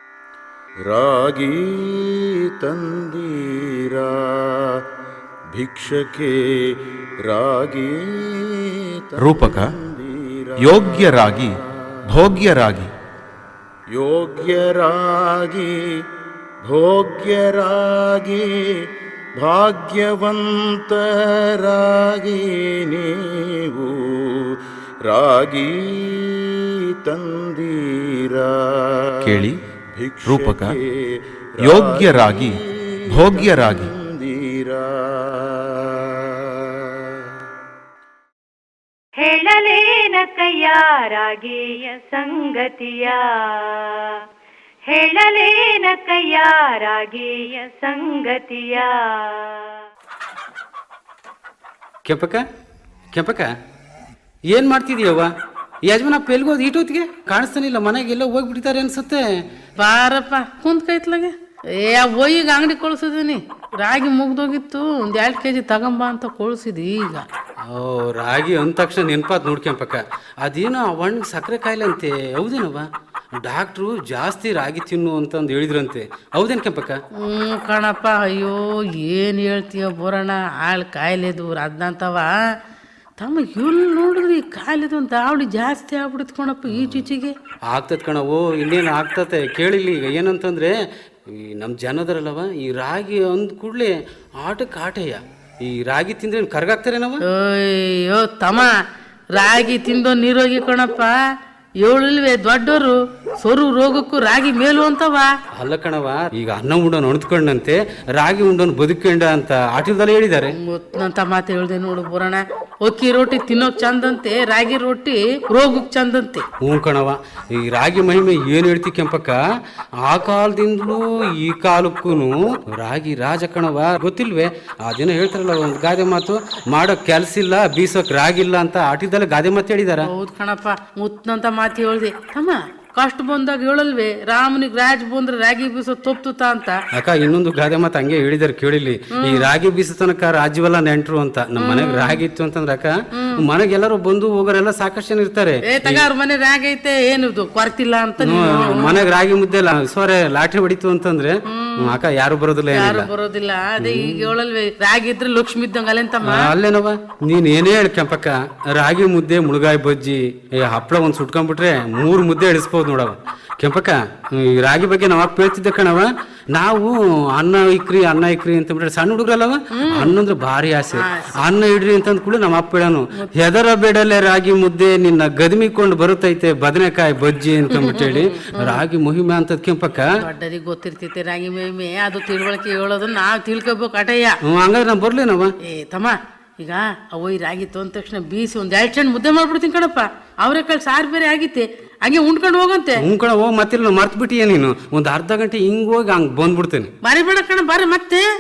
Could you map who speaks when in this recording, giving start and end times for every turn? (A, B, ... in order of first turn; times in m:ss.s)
0:00.8-0:02.1 A
0:02.6-0:03.4 A
0:03.9-0:04.6 A
0:05.6-0:06.3 A
0:07.3-0:08.4 A
0:09.2-0:11.4 A
0:09.2-0:09.8 B
0:10.6-0:12.9 B
0:13.9-0:15.7 A
0:16.6-0:18.5 A
0:19.4-0:21.0 A
0:21.6-0:23.2 A
0:23.7-0:24.4 A
0:25.1-0:26.5 A
0:27.0-0:29.4 A
0:29.2-0:29.6 B
0:29.9-0:31.1 A
0:30.2-0:30.8 B
0:31.6-0:35.5 A
0:31.6-0:32.6 B
0:33.1-0:33.9 B
0:39.2-0:44.2 C
0:44.9-0:49.8 C
0:52.1-0:52.5 D
0:53.1-0:53.5 D
0:54.5-0:55.3 D
0:55.9-0:59.3 D
0:59.8-1:07.2 E
1:07.7-1:17.0 D
1:17.2-1:22.4 E
1:23.2-1:27.4 E
1:26.7-1:27.0 D
1:27.7-1:30.8 D
1:31.3-1:37.2 D
1:37.3-1:38.7 E
1:39.4-1:41.1 E
1:41.8-1:45.3 E
1:45.5-1:50.5 D
1:50.6-1:56.5 E
1:56.6-1:59.4 D
2:00.0-2:10.1 D
2:10.1-2:16.8 E
2:17.0-2:26.1 D
2:19.2-2:19.5 E
2:21.6-2:22.2 E
2:25.7-2:29.1 E
2:28.2-2:33.1 D
2:31.5-2:32.0 E
2:32.7-2:36.5 E
2:33.8-2:34.3 D
2:36.3-3:00.1 D
2:49.8-2:50.2 E
2:51.0-2:51.3 E
2:57.7-2:58.8 E
3:00.2-3:04.4 E
3:04.5-3:05.5 D
3:05.7-3:13.0 E
3:13.0-3:16.9 D
3:17.0-3:18.2 E